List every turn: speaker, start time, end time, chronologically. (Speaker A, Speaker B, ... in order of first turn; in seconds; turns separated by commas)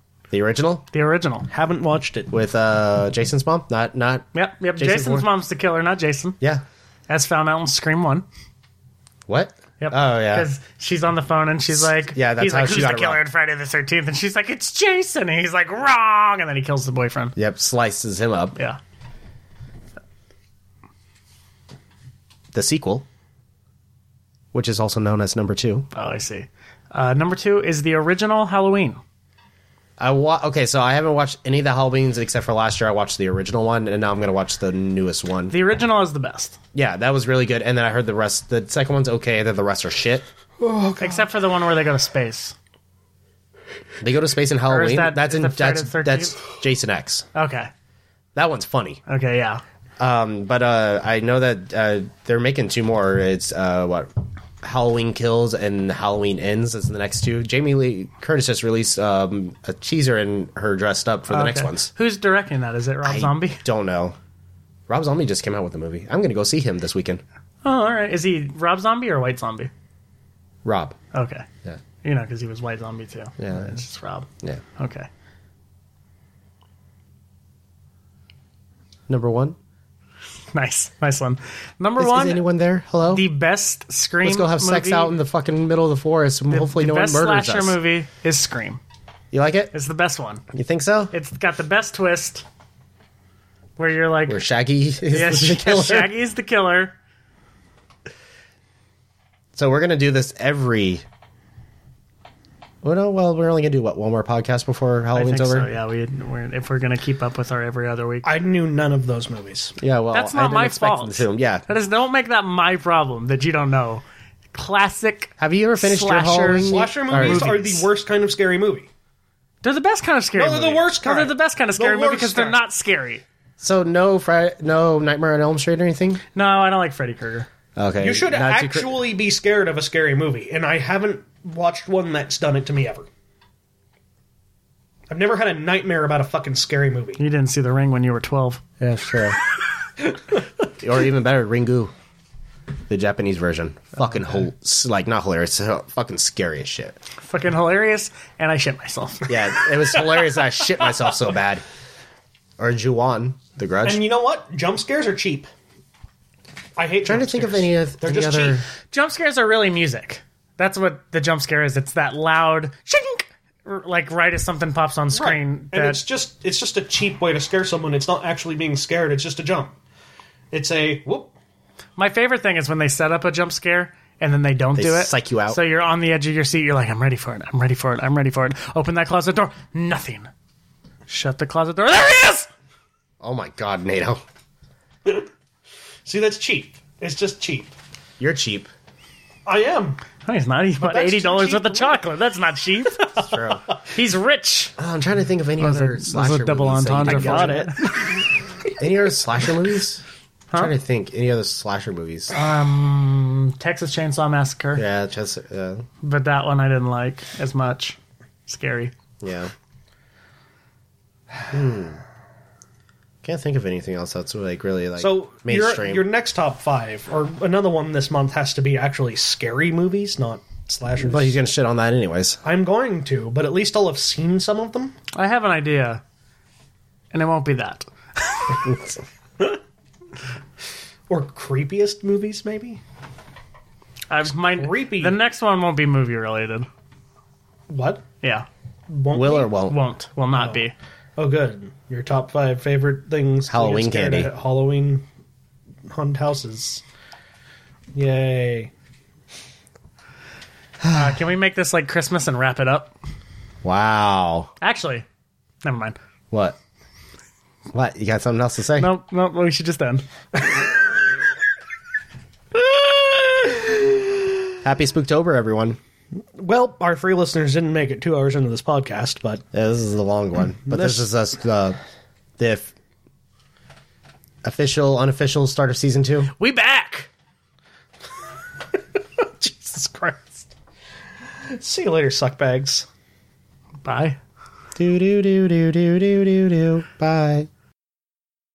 Speaker A: 0.3-0.9, Speaker B: 0.9-1.5, Speaker C: 1.5-2.3, Speaker A: 2.3-4.3, Speaker B: 4.3-6.4, Speaker A: 4.8-5.3, Speaker B: 7.1-8.3, Speaker A: 9.3-10.5, Speaker B: 9.8-17.4, Speaker A: 11.8-13.2, Speaker A: 17.4-18.6, Speaker A: 22.5-23.1, Speaker A: 24.5-25.9, Speaker B: 25.9-29.0, Speaker A: 30.0-35.5, Speaker B: 35.5-36.6, Speaker A: 36.7-40.2, Speaker B: 41.0-42.6, Speaker A: 44.0-47.3, Speaker B: 44.7-46.4, Speaker B: 47.4-47.7, Speaker A: 48.4-49.0, Speaker B: 49.1-49.6, Speaker A: 50.0-54.1, Speaker A: 54.6-61.9, Speaker B: 61.3-63.6, Speaker A: 63.0-64.2, Speaker A: 64.9-67.2, Speaker B: 67.6-69.7, Speaker A: 70.6-71.0, Speaker B: 71.1-71.5, Speaker B: 72.0-75.1, Speaker A: 73.4-73.7, Speaker A: 79.1-79.6, Speaker B: 80.5-82.4, Speaker A: 82.0-83.2, Speaker B: 83.1-85.2, Speaker A: 84.2-87.8, Speaker B: 86.5-88.8, Speaker A: 89.3-89.7, Speaker B: 89.7-90.5, Speaker A: 90.5-91.1, Speaker B: 91.1-92.5, Speaker B: 93.8-94.4, Speaker A: 94.3-96.1, Speaker B: 95.1-96.9, Speaker A: 99.6-101.0, Speaker A: 102.8-105.7, Speaker B: 105.1-108.3, Speaker C: 108.2-109.8, Speaker A: 109.8-111.6, Speaker B: 110.1-117.9, Speaker A: 115.4-117.5, Speaker C: 116.6-118.9, Speaker B: 119.6-123.2, Speaker C: 120.4-122.6, Speaker A: 123.6-126.2, Speaker B: 126.3-127.5, Speaker A: 127.8-129.0, Speaker C: 128.0-133.1, Speaker C: 135.1-137.2, Speaker B: 137.2-138.6, Speaker A: 138.8-139.4, Speaker A: 140.8-141.9, Speaker A: 142.9-147.0, Speaker B: 147.2-149.4, Speaker A: 149.3-151.6, Speaker A: 152.6-154.0, Speaker C: 153.8-155.5, Speaker C: 156.8-158.6, Speaker A: 157.1-158.6, Speaker B: 158.9-166.0, Speaker C: 165.1-169.8, Speaker C: 170.5-171.3, Speaker B: 172.0-180.3, Speaker A: 174.8-175.6, Speaker B: 181.1-182.5, Speaker A: 183.2-184.2, Speaker C: 186.1-187.7, Speaker A: 188.2-188.7, Speaker C: 189.5-190.0, Speaker B: 190.2-193.2, Speaker C: 190.8-192.0, Speaker A: 193.2-193.6, Speaker B: 193.8-194.7, Speaker A: 194.8-197.7, Speaker B: 195.6-198.1, Speaker C: 197.0-197.9, Speaker A: 198.8-200.0, Speaker A: 200.5-202.3, Speaker B: 202.3-204.8, Speaker A: 204.8-205.8, Speaker B: 206.0-208.9, Speaker A: 209.2-209.5, Speaker A: 211.5-212.0, Speaker A: 213.2-216.1, Speaker C: 215.0-221.3, Speaker A: 221.0-222.4, Speaker C: 222.4-225.0, Speaker B: 225.2-226.0, Speaker B: 227.1-228.7, Speaker C: 231.1-232.8, Speaker B: 234.1-236.7, Speaker C: 234.4-235.2, Speaker C: 237.7-238.1, Speaker B: 238.2-238.5, Speaker C: 238.9-239.5, Speaker A: 239.1-239.8, Speaker B: 239.6-240.7, Speaker C: 240.3-240.7, Speaker C: 241.2-245.1, Speaker A: 243.5-244.3, Speaker C: 245.9-246.8, Speaker C: 247.9-248.7, Speaker A: 250.8-251.2, Speaker B: 250.9-252.9, Speaker A: 253.6-254.5, Speaker B: 254.6-255.1, Speaker B: 255.6-256.0, Speaker A: 256.3-256.6, Speaker A: 257.7-258.9, Speaker B: 258.8-260.1, Speaker C: 260.4-260.6, Speaker C: 262.5-264.2, Speaker A: 264.6-265.8, Speaker C: 266.4-269.4, Speaker A: 269.5-271.8, Speaker C: 270.7-271.1, Speaker A: 272.4-272.7, Speaker A: 274.4-276.3, Speaker B: 276.4-277.1, Speaker C: 279.2-280.5, Speaker C: 281.5-282.9, Speaker B: 283.8-284.2, Speaker A: 284.8-287.5